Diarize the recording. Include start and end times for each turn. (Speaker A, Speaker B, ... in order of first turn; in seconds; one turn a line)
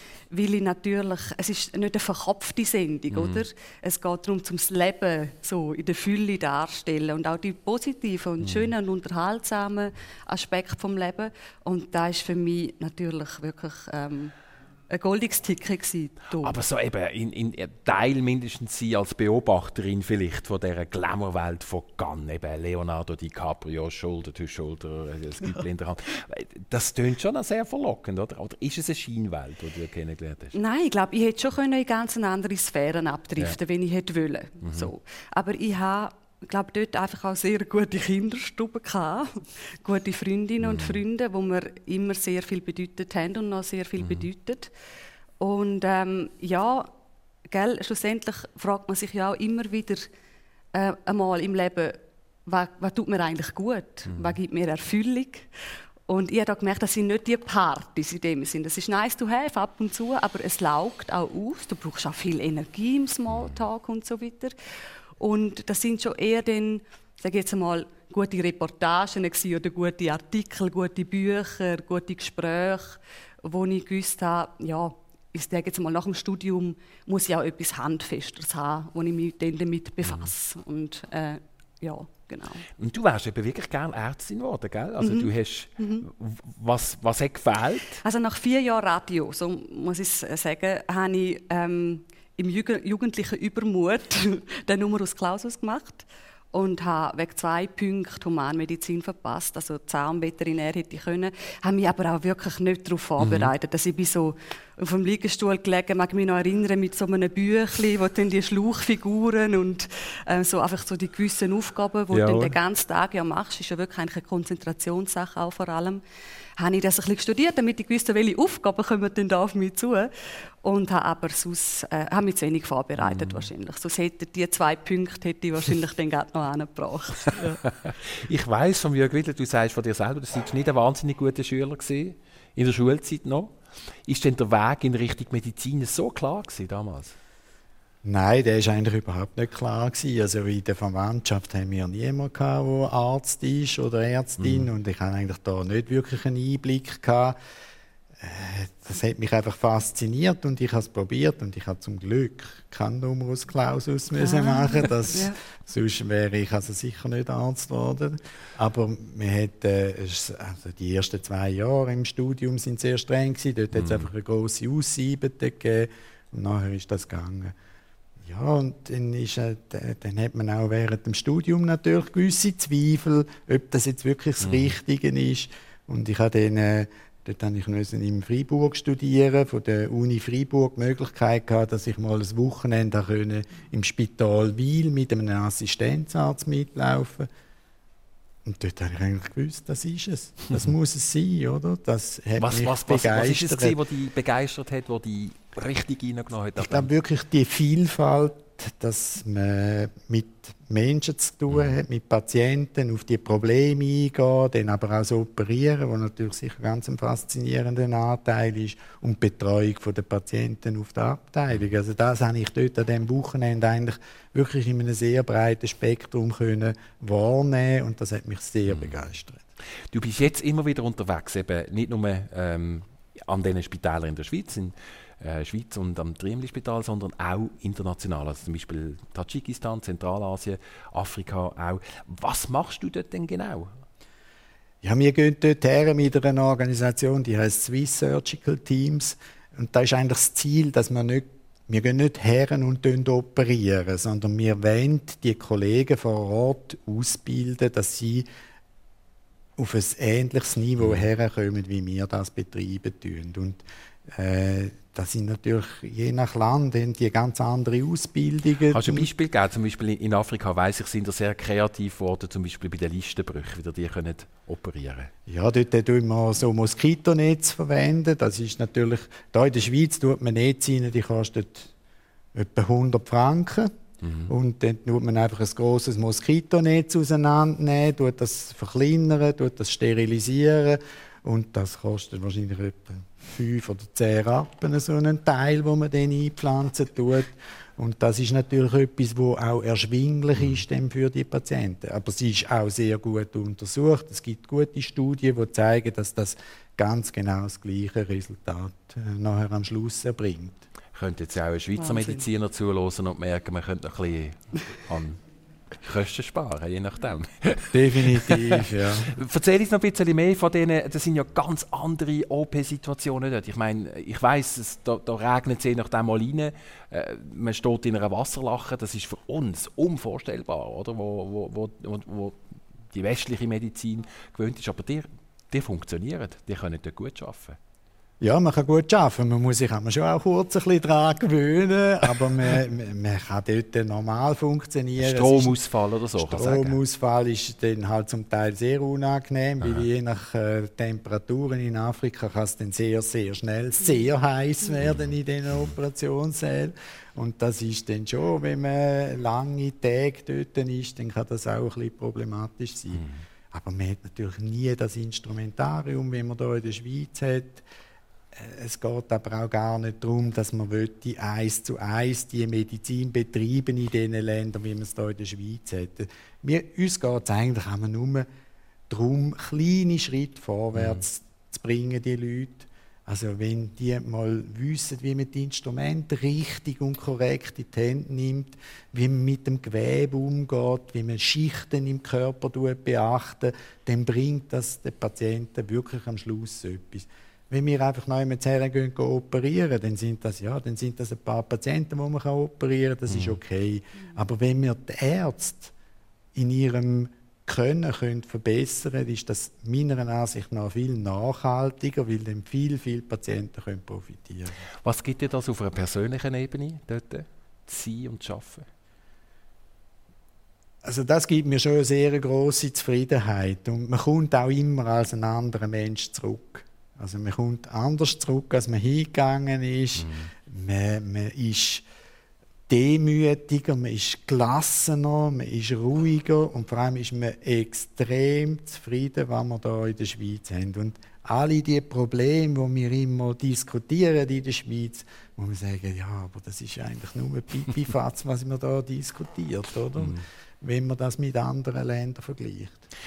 Speaker A: 0.3-14.3
Speaker B: 3.1-3.4
Speaker B: 8.4-8.7
Speaker A: 14.9-16.6
Speaker B: 16.4-30.6
Speaker A: 30.5-44.7
Speaker B: 34.6-34.9
Speaker B: 40.6-41.0
Speaker B: 44.0-44.3
Speaker A: 45.4-46.9
Speaker A: 47.5-50.1
Speaker A: 50.7-55.5
Speaker B: 54.1-54.3
Speaker A: 56.1-64.5
Speaker A: 65.2-82.7
Speaker B: 80.0-80.3
Speaker B: 82.8-88.0
Speaker A: 85.0-86.0
Speaker A: 88.0-116.0
Speaker B: 103.2-103.5
Speaker B: 112.1-112.5
Speaker A: 116.6-120.1
Speaker A: 120.6-127.6
Speaker B: 123.0-123.5
Speaker B: 128.1-133.5
Speaker B: 134.1-137.2
Speaker C: 138.0-147.4
Speaker B: 144.4-144.7
Speaker C: 148.2-167.5
Speaker A: 154.2-155.4
Speaker B: 163.7-164.1
Speaker C: 168.2-187.3
Speaker B: 174.4-174.7
Speaker C: 188.4-193.8
Speaker B: 192.4-196.9
Speaker C: 196.6-219.4
Speaker B: 218.7-219.0
Speaker B: 219.9-233.7
Speaker C: 234.8-248.2
Speaker C: 249.6-259.1
Speaker B: 250.8-251.0
Speaker B: 258.7-265.1
Speaker C: 265.3-271.7
Speaker C: 272.3-273.7
Speaker B: 274.0-274.3
Speaker C: 274.3-300.6
Speaker B: 300.9-305.2
Speaker A: 301.8-302.2
Speaker B: 305.8-322.4
Speaker C: 307.7-309.1
Speaker B: 322.9-327.6
Speaker C: 328.2-335.5
Speaker B: 335.0-336.8
Speaker C: 336.2-357.6
Speaker B: 352.9-353.2
Speaker C: 358.3-368.3
Speaker C: 368.9-395.7
Speaker B: 370.7-371.0
Speaker B: 393.1-393.4
Speaker C: 396.3-404.6
Speaker B: 404.8-408.7
Speaker C: 410.8-421.8
Speaker B: 420.0-420.3
Speaker C: 422.7-442.8
Speaker B: 439.9-440.2